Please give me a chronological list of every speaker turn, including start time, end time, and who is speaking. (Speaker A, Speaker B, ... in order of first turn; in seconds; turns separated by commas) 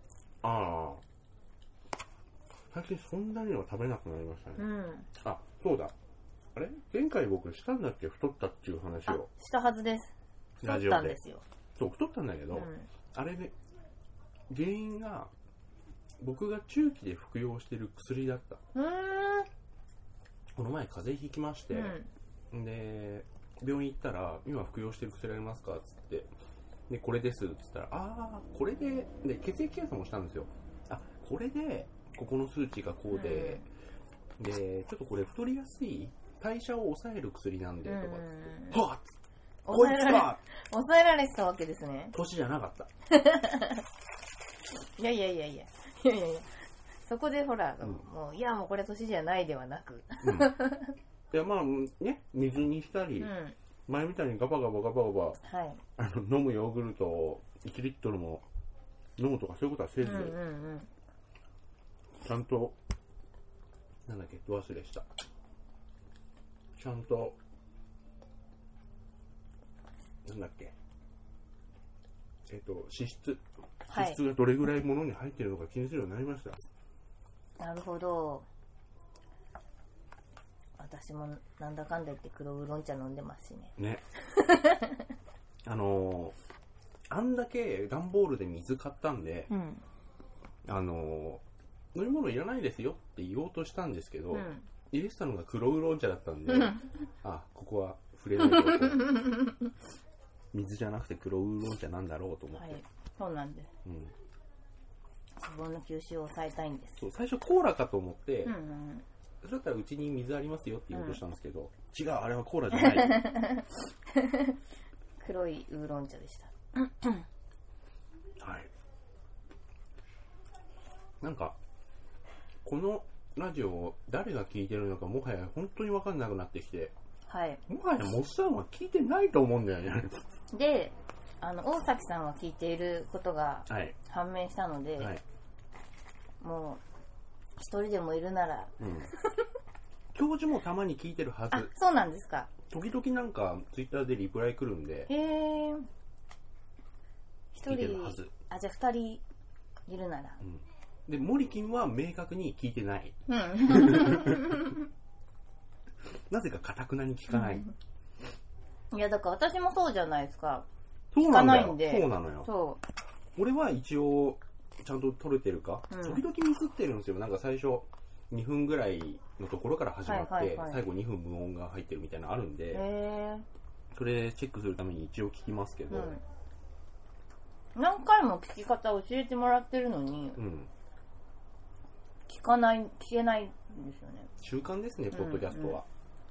Speaker A: 0.4-1.0, Speaker A: 2.7-4.7, Speaker B: 4.6-5.1, Speaker A: 5.2-5.9, Speaker A: 6.5-9.3, Speaker B: 9.1-11.4, Speaker A: 10.6-11.2, Speaker A: 11.8-13.5, Speaker B: 12.5-12.9, Speaker A: 14.5-15.3, Speaker A: 16.2-18.6, Speaker B: 18.7-19.5, Speaker A: 20.6-22.0, Speaker B: 21.7-22.1, Speaker A: 22.5-26.3, Speaker A: 26.9-33.6, Speaker B: 33.1-33.6, Speaker A: 34.4-39.1, Speaker B: 37.9-38.8, Speaker B: 39.6-42.1, Speaker A: 39.7-40.4, Speaker A: 42.1-42.9, Speaker B: 43.1-43.8, Speaker B: 45.0-50.9, Speaker A: 50.2-50.5, Speaker A: 51.3-53.3, Speaker B: 53.2-53.5, Speaker A: 53.9-55.4, Speaker B: 55.4-55.8, Speaker A: 56.0-58.4, Speaker A: 59.2-60.4, Speaker B: 60.0-60.9, Speaker A: 62.2-62.8, Speaker A: 64.0-65.0, Speaker A: 66.8-67.4, Speaker A: 70.2-70.7, Speaker A: 72.5-76.6, Speaker B: 73.9-74.2, Speaker B: 77.6-78.5, Speaker B: 80.8-85.1, Speaker A: 83.8-84.0, Speaker A: 85.6-86.3, Speaker A: 87.1-89.5, Speaker B: 89.5-89.8, Speaker A: 90.6-91.4, Speaker A: 91.9-99.2, Speaker B: 94.3-94.7, Speaker B: 96.5-96.9, Speaker B: 98.4-99.7, Speaker A: 100.5-102.8, Speaker B: 102.5-103.7, Speaker A: 103.8-104.1, Speaker B: 105.4-107.0, Speaker A: 107.0-108.5, Speaker B: 108.4-109.0, Speaker A: 109.4-113.3, Speaker B: 110.9-111.2, Speaker B: 112.7-114.6, Speaker B: 115.2-117.2, Speaker A: 118.4-118.7, Speaker A: 121.2-121.6, Speaker A: 122.6-126.9, Speaker B: 127.3-127.6, Speaker A: 127.7-130.2, Speaker B: 130.5-135.2, Speaker A: 133.7-133.9, Speaker B: 136.4-136.8, Speaker B: 137.6-138.8, Speaker A: 138.8-139.1, Speaker A: 140.1-141.7, Speaker B: 141.5-142.5, Speaker A: 142.7-145.1, Speaker B: 145.1-145.9, Speaker B: 147.5-149.2, Speaker A: 147.7-148.3, Speaker B: 149.9-150.4, Speaker A: 150.4-154.6, Speaker B: 153.3-154.8, Speaker A: 156.3-157.7, Speaker B: 157.3-157.7, Speaker B: 158.9-160.7, Speaker A: 161.1-162.5, Speaker B: 161.2-162.8, Speaker A: 163.3-172.8, Speaker B: 165.9-166.2, Speaker B: 170.0-170.8, Speaker B: 172.7-173.4, Speaker A: 173.9-176.2, Speaker B: 175.9-176.2, Speaker B: 177.7-180.4, Speaker A: 180.3-180.7, Speaker B: 182.3-184.3, Speaker A: 184.4-185.8, Speaker B: 185.1-185.8